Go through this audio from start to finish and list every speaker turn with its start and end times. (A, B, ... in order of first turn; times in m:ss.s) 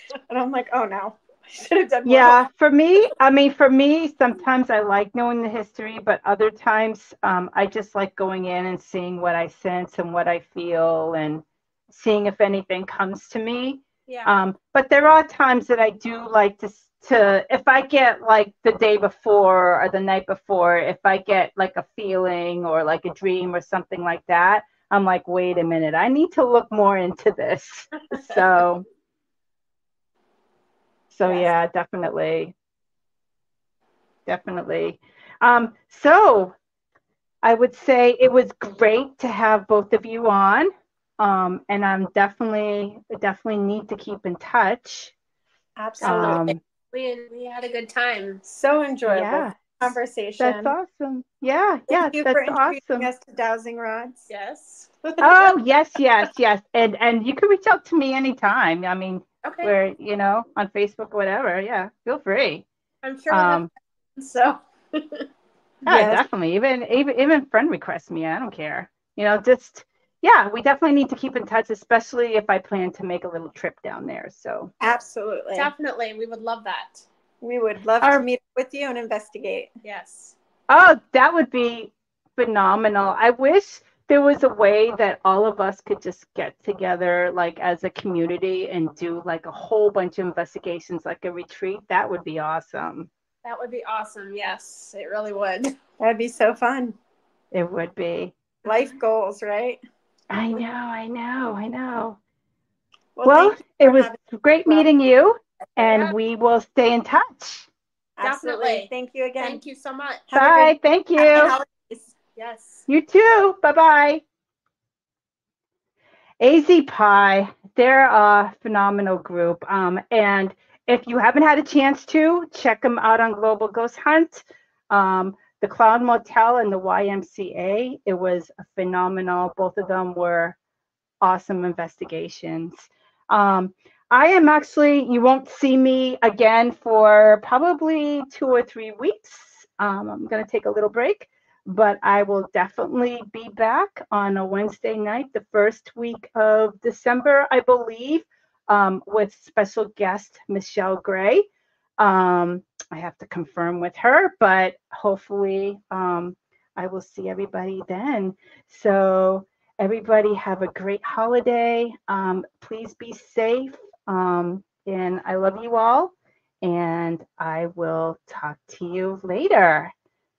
0:00.3-0:02.4 A
0:02.0-0:28.8 B
0:14.1-0:14.3 C
0:28.1-0:28.4 C
0:31.1-0:32.5 B
0:34.2-0:36.5 B
0:37.4-0:45.1 B
0:45.8-0:46.4 A
0:46.0-0:48.4 C
0:46.0-0:46.6 B
0:48.4-0:50.7 A
0:49.0-0:49.8 B
0:50.4-0:53.1 B
0:51.9-0:54.2 A
0:54.3-0:55.0 C
0:55.2-1:02.6 B
0:59.4-0:59.7 C
1:03.0-1:05.3 C
1:03.3-1:03.7 B
1:05.8-1:06.2 A
1:05.9-1:14.7 B
1:14.8-1:15.7 A
1:15.5-1:17.0 C
1:17.4-1:19.7 A
1:19.8-1:20.3 C
1:20.7-1:33.1 B
1:33.4-1:35.7 C
1:36.0-1:37.0 A
1:37.5-1:38.3 B
1:38.6-1:39.8 A
1:38.6-1:38.9 C
1:40.3-1:42.2 B
1:43.2-1:44.9 A
1:43.2-1:47.7 B
1:45.8-1:46.1 C
1:48.2-1:49.6 A
1:48.2-1:50.2 C
1:50.3-1:52.1 A
1:50.3-1:51.6 B
1:52.3-1:52.9 C
1:52.9-1:54.2 B
1:56.4-2:10.6 B
2:11.2-2:31.4 B
2:32.0-2:49.9 B